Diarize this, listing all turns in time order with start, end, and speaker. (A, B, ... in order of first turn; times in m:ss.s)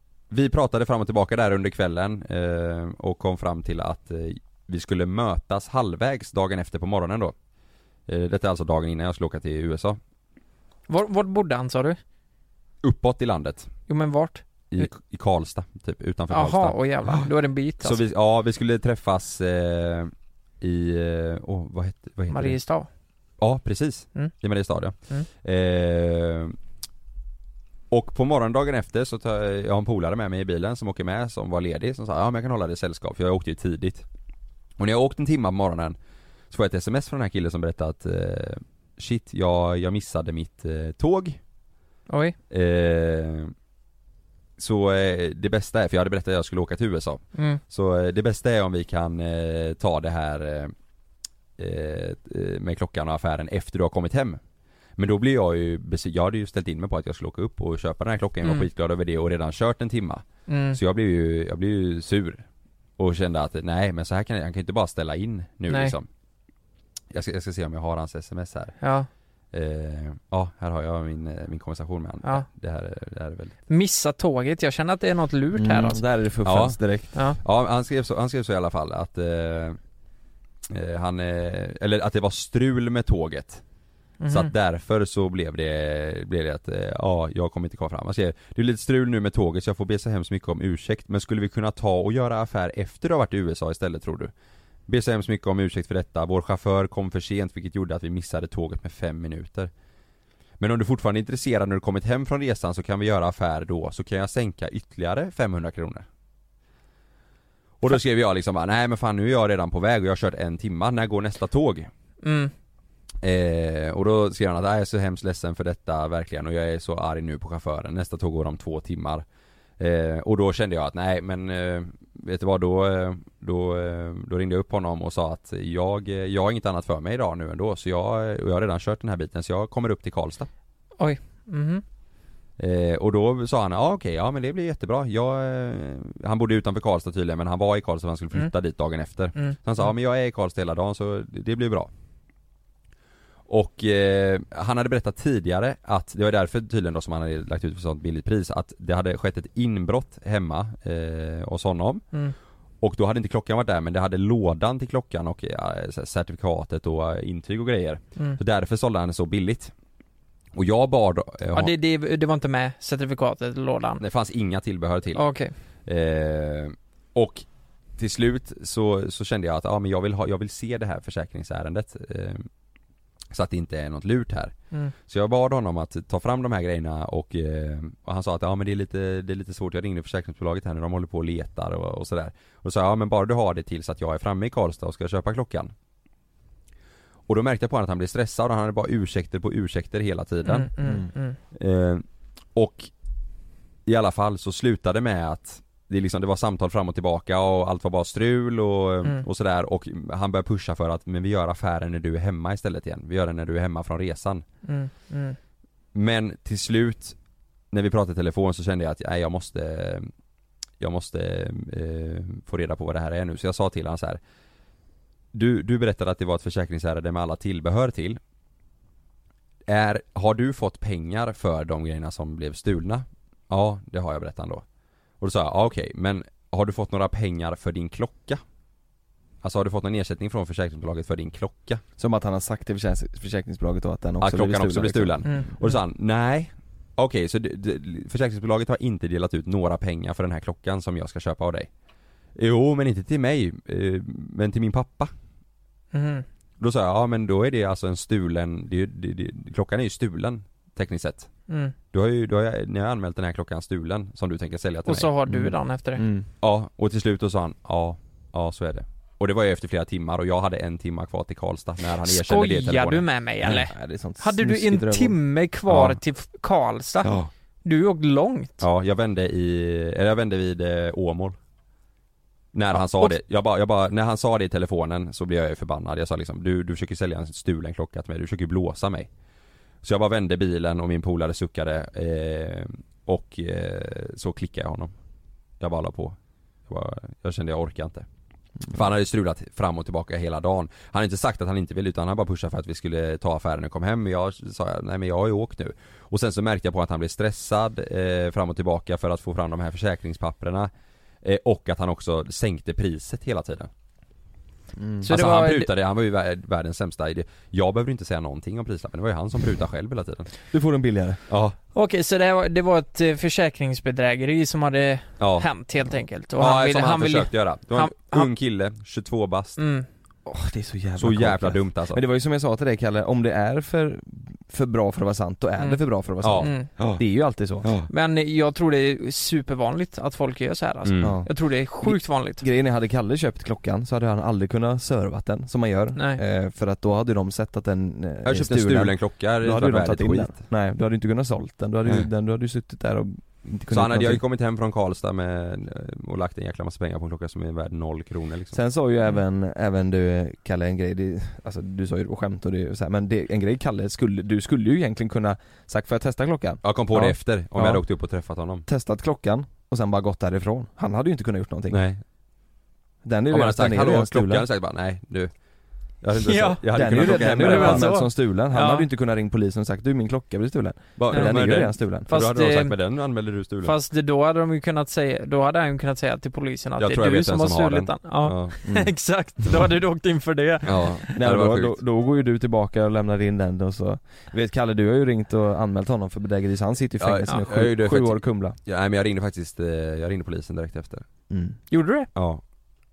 0:00.3-0:07.3 A
0:08.1-0:10.0 A
0:10.9-0:12.0 B
0:12.8-0:13.7 A
0:13.9-0:14.9 B
0:14.7-0:17.3 A
0:16.3-0:18.0 B
0:17.8-0:22.6 A
0:22.3-0:22.9 B
0:23.4-0:26.6 A
0:27.9-0:34.0 A
0:34.8-0:36.0 A
0:36.5-0:41.4 A
0:42.1-0:42.4 B
0:42.5-0:43.5 A
0:44.6-0:50.7 A
0:47.4-0:47.6 B
0:51.6-0:54.4 A
0:55.0-1:02.4 A
1:00.5-1:00.8 B
1:03.0-1:06.1 A
1:05.7-1:06.0 B
1:07.1-1:08.8 A
1:08.8-1:09.1 B
1:09.5-1:13.6 A
1:13.7-1:16.0 B
1:15.6-1:17.1 C
1:16.4-1:16.8 A
1:17.4-1:19.8 A
1:20.7-1:23.6 A
1:24.2-1:24.5 B
1:24.3-1:34.3 A
1:34.9-1:39.7 A
1:40.6-1:46.1 A
1:47.8-1:51.9 A
1:52.2-1:52.5 B
1:53.2-1:59.2 A
1:59.8-2:10.5 A
2:11.0-2:11.8 B
2:12.6-2:21.9 A
2:23.5-2:32.0 A
2:32.8-2:39.7 A
2:40.6-2:41.7 A
2:41.5-2:44.0 B
2:44.0-2:45.2 A
2:45.2-2:45.5 B
2:45.9-2:47.4 A
2:48.0-2:52.5 A
2:53.3-2:54.5 A
2:55.1-3:05.7 A
3:07.3-3:10.7 A
3:10.4-3:11.4 B
3:11.5-3:12.9 A
3:13.9-3:24.4 A
3:24.6-3:25.4 B
3:26.0-3:27.2 A
3:27.7-3:30.1 A
3:30.8-3:34.2 A
3:35.3-3:38.2 A
3:39.7-3:44.6 A
3:45.2-3:48.4 A
3:49.4-3:51.8 A
3:52.0-3:55.4 C
3:54.2-4:01.7 A
3:55.2-3:55.8 B
4:02.4-4:05.1 A
4:05.9-4:06.3 B
4:06.6-4:11.3 A
4:11.5-4:11.7 B
4:11.9-4:15.1 A
4:14.9-4:16.0 B
4:15.3-4:16.3 C
4:16.4-4:23.1 A
4:22.0-4:28.6 B
4:23.5-4:25.2 C
4:25.7-4:26.0 A
4:27.0-4:27.3 A
4:28.6-4:31.4 A
4:32.5-4:39.1 A
4:39.8-4:44.9 A
4:45.6-4:46.2 A
4:46.7-4:48.1 A
4:48.7-5:00.7 A
5:01.2-5:03.7 A
5:04.8-5:05.1 C
5:05.0-5:05.7 B
5:05.1-5:10.3 A
5:10.5-5:11.2 C
5:11.3-5:11.6 A
5:11.7-5:18.3 B
5:15.2-5:15.5 A
5:16.4-5:19.6 A
5:19.6-5:19.9 B
5:20.3-5:27.7 C
5:21.0-5:22.0 A
5:26.2-5:27.0 A
5:26.4-5:26.7 B
5:27.6-5:27.9 A
5:27.9-5:32.4 B
5:30.8-5:31.2 A
5:31.0-5:44.2 C
5:36.0-5:36.2 B
5:38.2-5:40.4 A
5:43.7-5:48.6 A
5:48.5-5:57.8 C
5:56.6-5:58.7 A
5:58.7-6:01.8 C
6:01.7-6:02.0 A
6:03.0-6:04.5 C
6:03.3-6:05.3 A
6:06.0-6:08.0 A
6:06.2-6:08.9 B
6:06.7-6:12.1 C
6:11.0-6:13.8 A
6:11.1-6:11.5 B
6:12.1-6:12.8 B
6:13.6-6:20.9 B
6:16.8-6:18.6 A
6:20.6-6:21.8 A
6:21.1-6:28.6 C
6:27.0-6:31.0 A
6:31.3-6:31.6 C
6:31.7-6:32.1 B
6:32.2-6:32.4 A